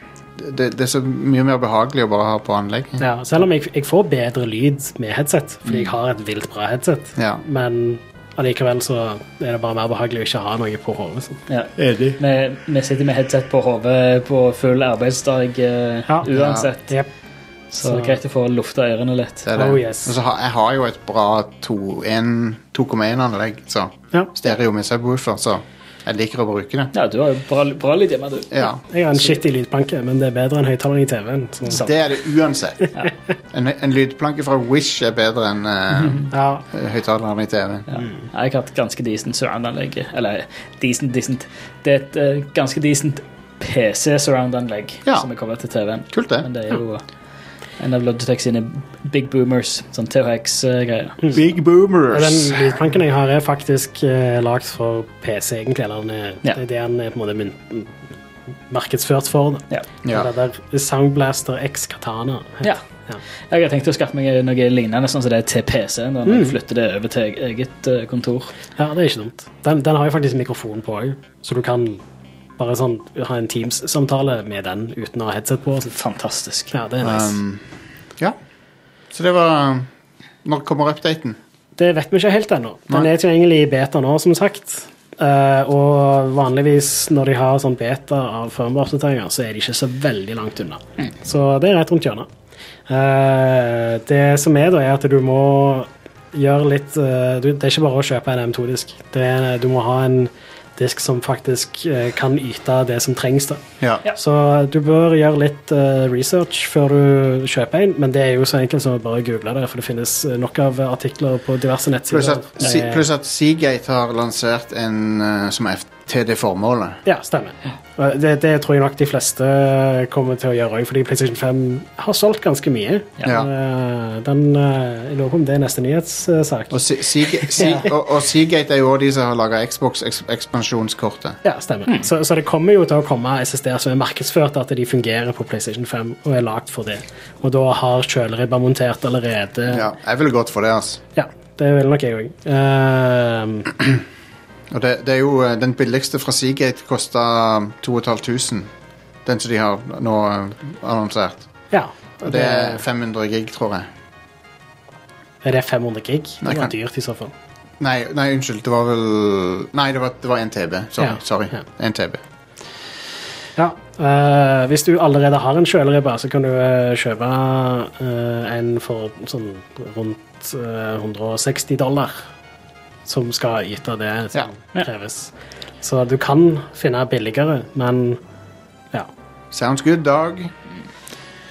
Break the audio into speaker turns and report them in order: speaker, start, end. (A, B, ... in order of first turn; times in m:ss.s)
0:00.4-0:03.0 A
0:03.0-0:11.4 B
0:05.7-0:05.9 C
0:07.2-0:07.4 A
0:11.5-0:16.9 C
0:11.8-0:12.2 A
0:16.3-0:16.7 A
0:17.7-0:19.5 C
0:17.8-0:18.2 B
0:19.4-0:26.9 A
0:19.5-0:20.1 B
0:26.9-0:28.7 C
0:28.5-0:28.8 A
0:28.9-0:31.9 B
0:31.7-0:32.9 A
0:33.5-0:37.9 A
0:36.3-0:36.6 B
0:37.9-0:47.0 C
0:46.1-0:46.5 A
0:47.8-0:51.3 C
0:51.3-0:52.6 A
0:52.1-0:57.9 B
0:58.7-1:03.2 B
1:00.0-1:00.3 A
1:03.5-1:08.5 C
1:06.2-1:06.6 B
1:08.8-1:12.0 B
1:12.6-1:15.9 B
1:15.9-1:16.7 C
1:16.7-1:17.4 B
1:17.0-1:17.6 A
1:19.1-1:19.9 A
1:20.4-1:21.4 A
1:21.8-1:32.3 B
1:32.9-1:43.6 B
1:44.1-1:53.0 B
1:52.1-1:57.0 A
1:57.0-2:07.9 B
2:06.7-2:11.4 A
2:11.4-2:19.9 B
2:19.7-2:21.0 A
2:21.2-2:23.8 B
2:24.7-2:28.7 A
2:29.2-2:31.5 A
2:31.7-2:32.8 B
2:32.2-2:33.9 A
2:35.4-2:37.3 B
2:36.4-2:36.7 A
2:37.8-2:42.2 A
2:41.0-2:41.6 B
2:43.6-2:52.2 B
2:53.1-2:58.2 B
2:59.5-3:00.5 A